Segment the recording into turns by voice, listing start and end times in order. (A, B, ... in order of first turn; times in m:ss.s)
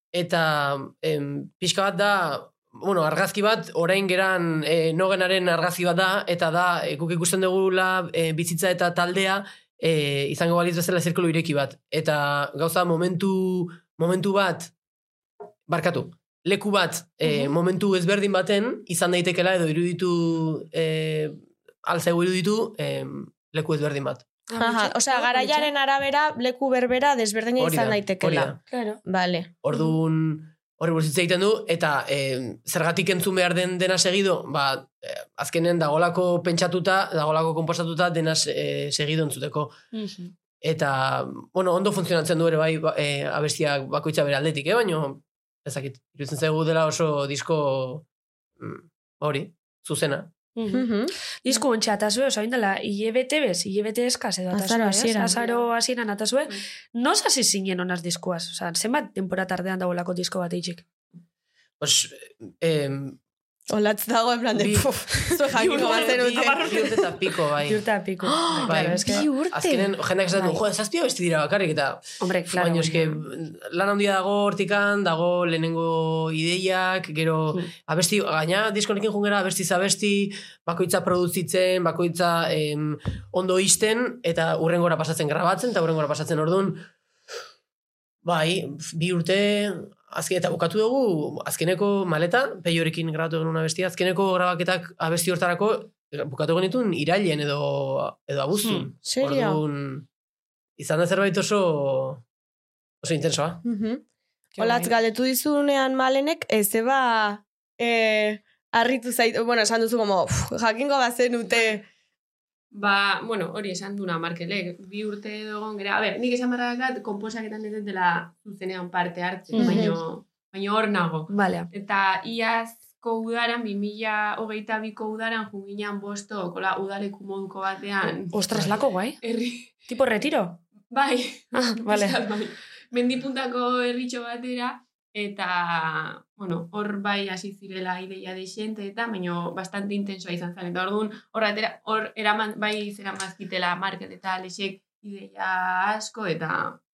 0:00.1-0:14.7 A
0:15.7-0:24.3 A
0:24.5-0:25.7 B
0:24.6-0:29.6 C
0:27.6-0:28.6 A
0:28.7-0:29.0 B
0:29.6-0:39.8 A
0:39.9-0:40.3 B
0:40.6-0:48.0 A
0:48.6-0:50.3 A
0:50.6-0:50.9 B
0:50.7-0:51.2 C
0:51.4-1:00.8 B
0:54.5-0:55.4 C
1:01.8-1:03.2 A
1:03.7-1:07.0 C
1:04.6-1:07.8 A
1:05.5-1:07.1 B
1:07.7-1:09.3 B
1:08.3-1:09.9 C
1:08.7-1:26.9 A
1:12.2-1:13.2 B
1:28.2-1:40.1 A
1:38.6-1:38.9 B
1:39.1-1:39.6 C
1:40.8-1:42.2 A
1:43.0-1:43.6 A
1:43.6-1:44.0 C
1:44.6-1:44.9 B
1:44.6-1:51.9 C
1:52.7-2:09.8 D
1:59.5-1:59.9 B
1:59.6-2:00.0 C
2:01.3-2:01.7 B
2:08.3-2:09.2 B
2:09.9-2:10.6 B
2:10.9-2:26.8 D
2:11.5-2:12.2 B